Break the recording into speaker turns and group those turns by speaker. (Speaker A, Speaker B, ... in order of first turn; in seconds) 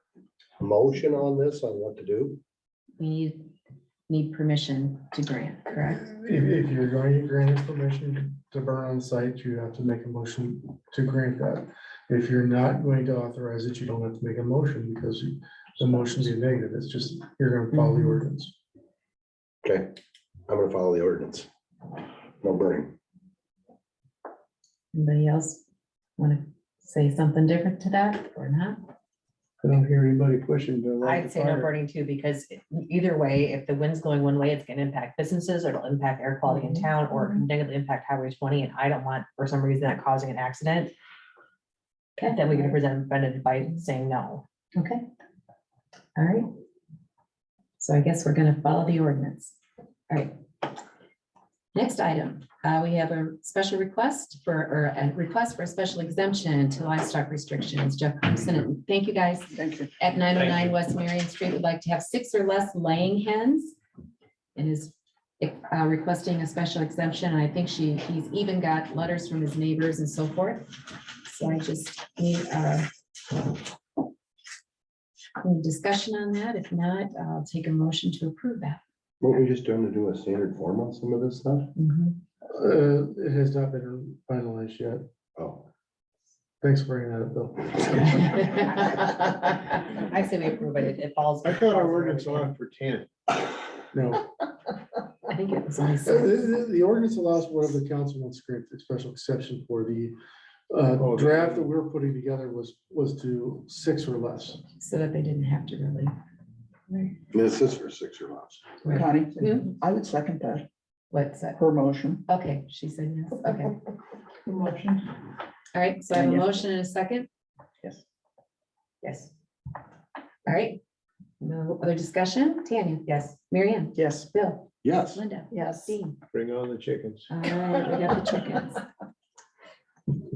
Speaker A: 0.6-2.4, 19.6-20.0, 20.5-21.5, 22.4-22.9, 79.2-81.7, 85.3-85.7, 107.3-108.8, 124.8-125.2
Speaker B: 3.0-3.5, 4.1-6.0, 17.7-18.2, 24.9-25.6, 26.2-28.8, 36.5-36.7, 44.7-45.0, 46.1-46.5, 47.8-49.5, 51.7-63.8, 64.5-72.9, 75.4-78.8, 81.8-82.1, 88.0-89.0, 95.3-96.4, 104.8-106.1, 108.8-109.7, 111.1-111.6, 112.3-113.8, 115.7-117.3, 119.0-119.3, 120.5-120.8, 121.4-126.2, 127.3-128.8
Speaker C: 5.8-18.5, 82.5-85.1, 86.6-88.3, 93.9-94.3, 96.0-100.2, 100.7-104.6
Speaker D: 29.6-31.7, 91.4-93.1, 101.0-101.7, 126.3-127.3
Speaker E: 31.0-40.9, 42.2-44.4, 89.5-92.5
Speaker F: 59.5-59.9, 108.8-110.7, 111.6-112.2, 114.5-115.0, 116.1-116.4, 123.9-124.3